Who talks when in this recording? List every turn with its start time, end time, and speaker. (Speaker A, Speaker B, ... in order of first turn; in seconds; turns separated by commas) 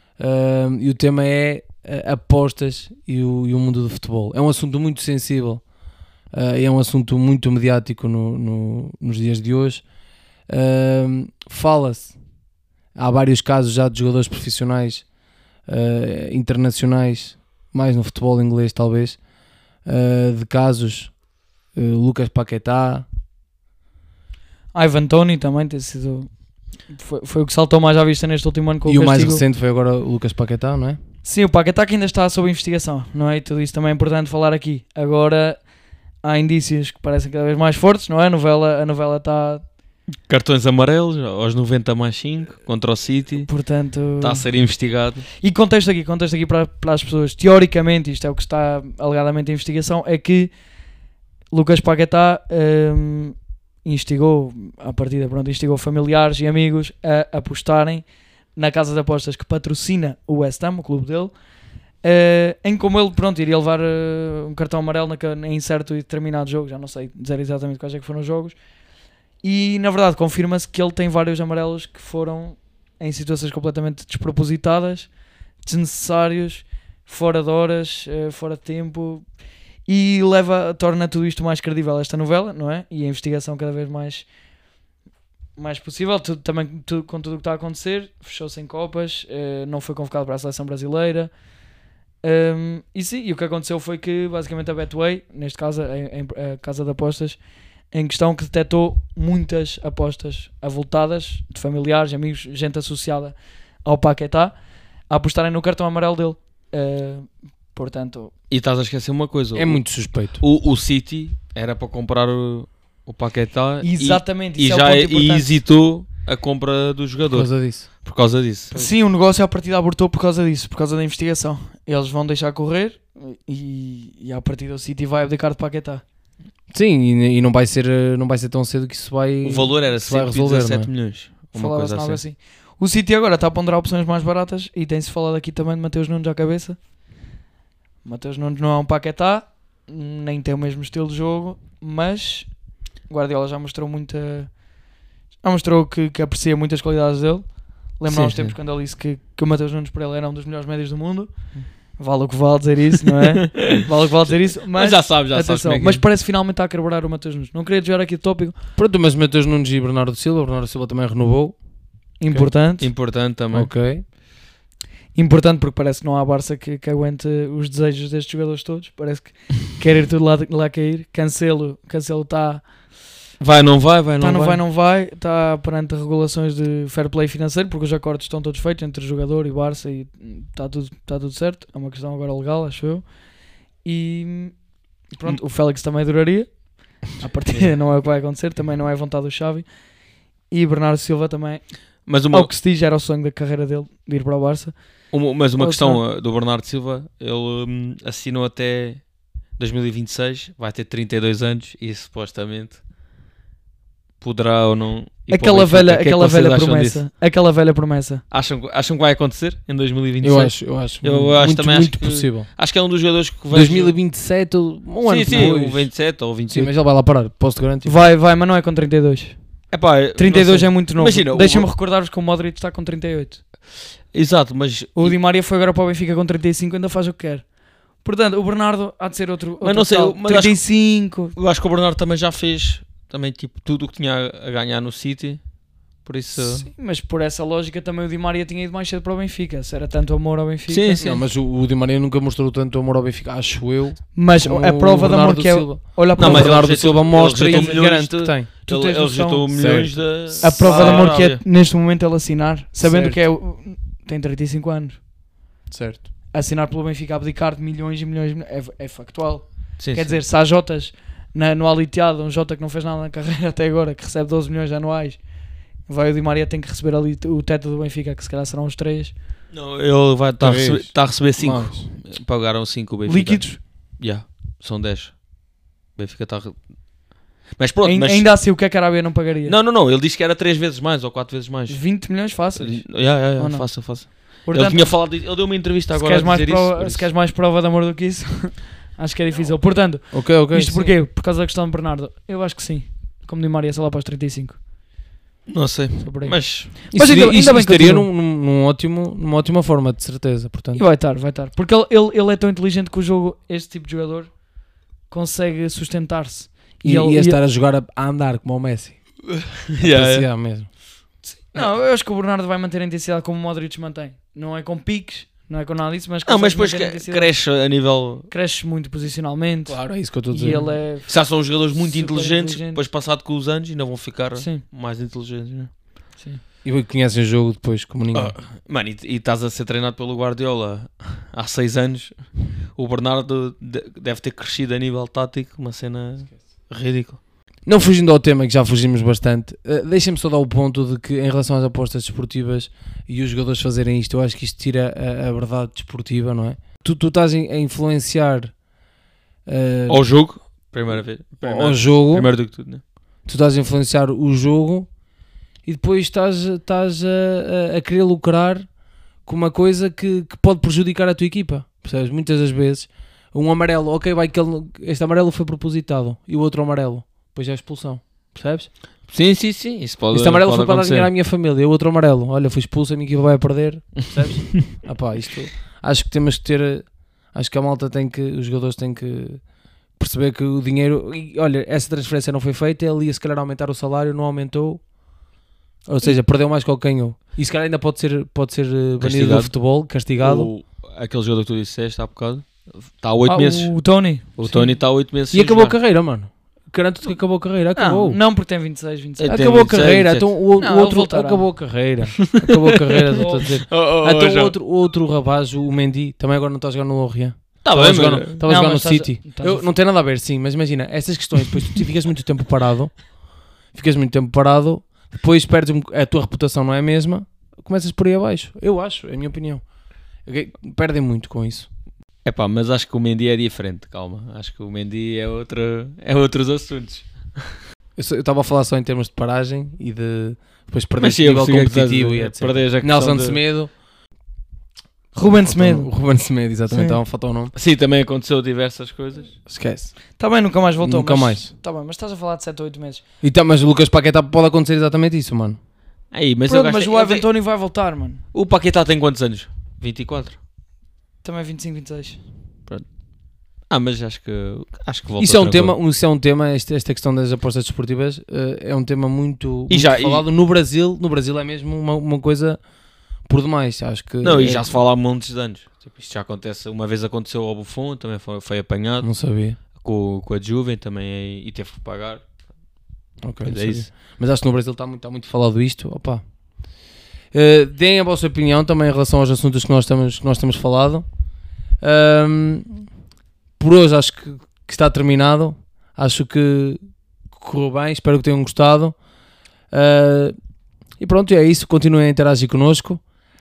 Speaker A: 0.2-5.6, Speaker A: 6.3-9.8, Speaker A: 10.5-12.2, Speaker A: 12.9-15.1, Speaker A: 15.7-19.2, Speaker A: 19.8-21.2, Speaker A: 21.7-23.1, Speaker B: 24.7-29.4, Speaker A: 28.9-31.0, Speaker B: 31.2-35.7, Speaker B: 36.2-39.6, Speaker C: 40.3-43.5, Speaker B: 43.5-44.5, Speaker C: 44.2-45.3, Speaker B: 45.4-50.5, Speaker B: 51.5-61.3, Speaker B: 62.0-68.6, Speaker B: 69.4-75.1, Speaker B: 75.6-79.3, Speaker B: 79.9-84.3, Speaker B: 85.6-91.3, Speaker B: 92.2-97.4, Speaker B: 97.9-104.6, Speaker B: 105.1-108.3, Speaker C: 108.5-118.9, Speaker A: 109.5-110.4, Speaker B: 113.8-115.6, Speaker A: 117.3-117.9, Speaker B: 118.7-126.0, Speaker A: 126.7-130.9, Speaker C: 129.4-132.2, Speaker B: 131.5-136.8, Speaker B: 138.0-144.7, Speaker B: 145.4-158.6, Speaker C: 148.1-148.6, Speaker C: 153.5-156.1, Speaker A: 158.8-161.6, Speaker B: 162.2-162.9, Speaker C: 162.3-163.7, Speaker A: 163.5-164.0, Speaker B: 165.2-172.6, Speaker C: 173.4-174.6, Speaker B: 174.2-183.1, Speaker B: 183.8-189.7, Speaker B: 190.5-194.8, Speaker C: 192.1-192.5, Speaker C: 195.1-199.1, Speaker B: 195.4-196.0, Speaker C: 199.6-202.8, Speaker C: 204.2-207.0, Speaker B: 205.3-208.2, Speaker C: 208.3-213.9, Speaker A: 210.2-212.5, Speaker A: 213.5-218.0, Speaker C: 215.0-216.7, Speaker B: 217.8-219.4, Speaker C: 219.7-221.7, Speaker B: 220.1-223.4, Speaker C: 224.1-225.2, Speaker B: 225.0-227.5, Speaker B: 228.0-231.3, Speaker C: 229.6-230.8, Speaker C: 231.3-235.4, Speaker C: 236.0-236.7, Speaker B: 236.3-241.2, Speaker C: 240.7-241.1, Speaker A: 241.0-248.5, Speaker B: 244.2-248.1, Speaker C: 246.2-251.4, Speaker B: 248.7-255.0, Speaker A: 249.5-251.1, Speaker A: 252.8-253.2, Speaker A: 255.7-256.1, Speaker B: 256.3-265.2, Speaker C: 259.8-260.2, Speaker B: 265.9-269.1, Speaker C: 269.5-275.2, Speaker A: 270.4-271.9, Speaker B: 273.1-273.6, Speaker C: 275.9-276.7, Speaker C: 277.6-278.3, Speaker B: 277.8-279.6, Speaker C: 279.4-287.1, Speaker B: 281.7-294.6, Speaker A: 290.1-290.9, Speaker C: 295.5-296.8, Speaker B: 296.0-298.1, Speaker A: 296.9-300.8, Speaker B: 300.8-304.4, Speaker B: 305.1-307.4, Speaker A: 306.8-309.2, Speaker C: 309.7-310.3, Speaker A: 309.8-310.7, Speaker B: 311.2-317.3, Speaker C: 316.3-318.3, Speaker B: 318.3-322.8, Speaker A: 319.7-320.7, Speaker C: 320.5-325.7, Speaker B: 324.4-324.6, Speaker A: 326.6-328.4, Speaker C: 328.1-337.2, Speaker A: 337.6-348.5, Speaker A: 349.5-350.0, Speaker C: 349.9-352.8, Speaker A: 351.4-352.3, Speaker A: 353.2-354.9, Speaker A: 355.6-358.7, Speaker A: 359.2-368.7, Speaker C: 369.1-371.1, Speaker A: 370.1-379.4, Speaker A: 380.0-384.8, Speaker A: 385.9-390.5, Speaker C: 389.0-389.6, Speaker C: 390.2-393.9, Speaker B: 393.3-394.7, Speaker C: 394.4-395.8, Speaker A: 395.3-398.2, Speaker B: 397.8-399.4, Speaker C: 399.2-400.3, Speaker A: 399.2-419.6, Speaker B: 400.6-401.5, Speaker C: 403.1-404.6, Speaker B: 403.1-403.5, Speaker C: 407.6-408.4, Speaker B: 408.4-409.7, Speaker A: 420.2-421.7, Speaker C: 422.2-427.6, Speaker A: 428.0-433.7, Speaker C: 431.0-433.4, Speaker B: 435.1-435.9, Speaker A: 435.3-437.5, Speaker B: 436.7-437.0, Speaker C: 437.5-439.4, Speaker A: 439.5-440.0, Speaker B: 440.2-443.0, Speaker A: 440.8-441.5, Speaker A: 443.2-445.6, Speaker C: 446.1-447.3, Speaker B: 446.5-448.2, Speaker C: 448.3-450.4, Speaker B: 451.2-452.2, Speaker C: 453.7-455.8, Speaker A: 455.2-462.6, Speaker C: 459.7-460.3, Speaker A: 463.3-464.8, Speaker C: 464.2-469.1, Speaker A: 469.0-469.6, Speaker C: 469.7-472.3, Speaker A: 473.2-476.2, Speaker C: 473.4-473.9, Speaker A: 477.3-481.1, Speaker A: 481.8-482.8, Speaker A: 483.6-486.8, Speaker A: 487.3-489.0, Speaker A: 489.7-490.4, Speaker A: 491.0-493.0